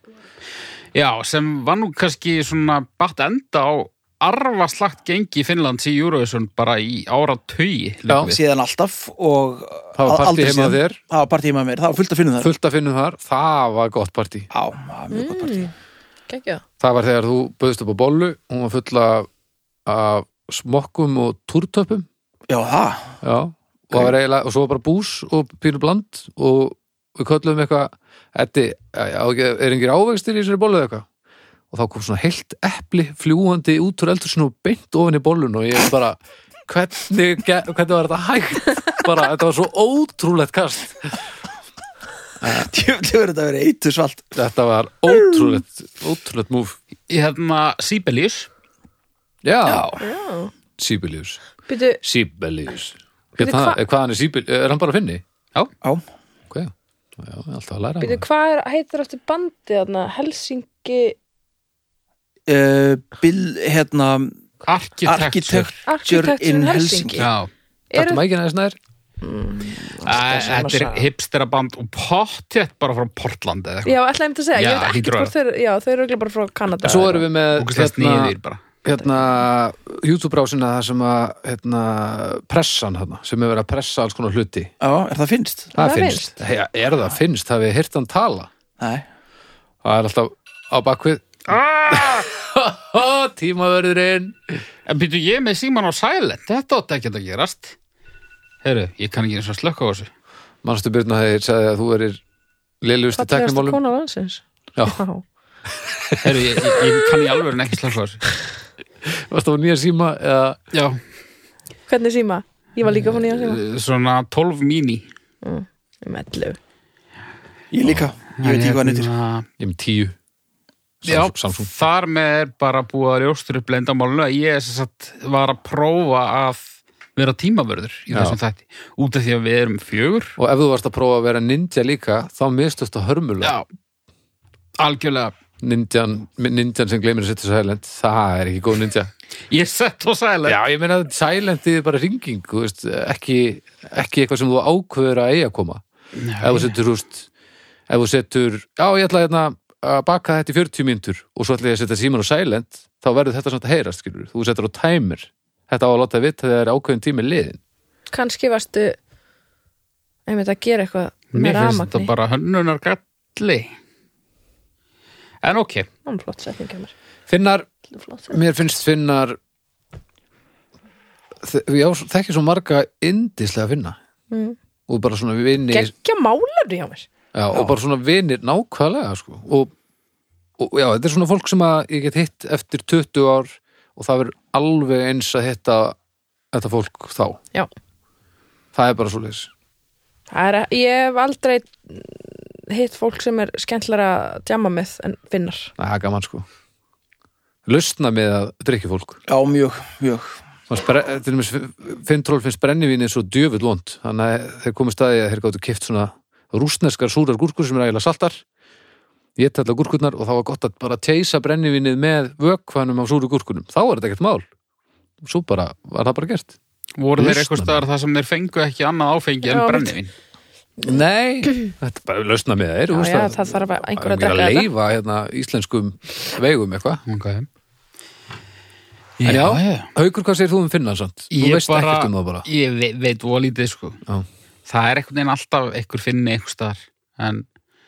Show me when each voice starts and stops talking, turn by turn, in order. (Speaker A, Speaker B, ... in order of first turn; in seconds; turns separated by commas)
Speaker A: 0.9-8.4, Speaker B: 8.1-8.3, Speaker C: 8.2-12.5, Speaker B: 9.9-11.0, Speaker B: 12.4-14.5, Speaker C: 14.5-15.7, Speaker D: 15.1-15.7, Speaker D: 16.3-16.6, Speaker B: 16.8-19.3, Speaker B: 19.9-22.1, Speaker C: 22.5-23.2, Speaker B: 23.2-31.1, Speaker B: 31.7-41.2, Speaker B: 42.4-42.7, Speaker C: 42.5-44.3, Speaker B: 44.4-46.8, Speaker A: 47.1-48.5, Speaker B: 49.4-50.0, Speaker C: 49.7-50.0, Speaker D: 50.0-50.5, Speaker B: 50.8-51.4, Speaker D: 51.7-52.0, Speaker B: 52.0-55.2, Speaker D: 53.4-53.8, Speaker B: 56.5-58.2, Speaker D: 58.0-61.2, Speaker C: 62.5-64.3, Speaker A: 64.6-65.8, Speaker C: 65.1-67.3, Speaker D: 65.9-67.3, Speaker A: 67.2-67.5, Speaker D: 67.9-68.2, Speaker B: 68.0-68.8, Speaker D: 69.2-71.1, Speaker A: 70.0-74.0, Speaker D: 73.8-77.3, Speaker A: 74.5-75.3, Speaker B: 76.8-84.7, Speaker A: 77.6-78.6, Speaker C: 84.8-85.8, Speaker B: 85.8-88.5, Speaker D: 85.8-86.3, Speaker C: 88.8-89.0, Speaker B: 89.8-94.6, Speaker A: 91.6-92.1, Speaker A: 94.9-97.8, Speaker A: 98.6-100.1, Speaker B: 100.6-102.2, Speaker B: 102.8-103.8, Speaker D: 103.1-105.2, Speaker B: 105.7-106.9, Speaker A: 106.2-108.2, Speaker B: 109.0-110.6, Speaker A: 110.7-111.0, Speaker D: 111.9-113.6, Speaker A: 112.9-115.0, Speaker D: 115.4-116.6, Speaker C: 117.7-119.1, Speaker A: 118.4-119.5, Speaker B: 119.6-120.2, Speaker B: 121.0-121.7, Speaker A: 121.0-130.4, Speaker B: 128.1-128.4, Speaker B: 130.4-133.6, Speaker A: 134.8-135.3, Speaker B: 135.6-139.1, Speaker A: 139.5-140.6, Speaker B: 140.5-145.8, Speaker A: 146.2-146.7, Speaker B: 146.4-147.3, Speaker B: 147.9-157.6, Speaker D: 158.1-159.0, Speaker D: 160.3-162.1, Speaker A: 161.3-163.7, Speaker A: 165.4-165.9, Speaker D: 166.1-166.9, Speaker B: 167.3-167.7, Speaker D: 167.9-168.4, Speaker B: 168.3-169.4, Speaker B: 171.4-174.0, Speaker D: 174.3-174.6, Speaker B: 174.9-175.9, Speaker D: 175.7-177.1, Speaker B: 177.3-179.7, Speaker B: 180.6-186.0, Speaker B: 186.5-187.4, Speaker B: 188.7-189.5, Speaker D: 190.3-195.7, Speaker B: 195.8-196.5, Speaker B: 197.7-199.2, Speaker C: 199.3-200.3, Speaker B: 200.7-208.4, Speaker B: 209.4-214.4, Speaker B: 215.2-216.6, Speaker A: 217.0-220.1, Speaker B: 217.2-217.8, Speaker D: 219.4-219.9, Speaker B: 220.8-227.0, Speaker D: 222.9-224.7, Speaker A: 227.1-227.5, Speaker A: 229.2-229.9, Speaker B: 229.2-232.5, Speaker A: 231.3-234.0, Speaker A: 234.7-237.4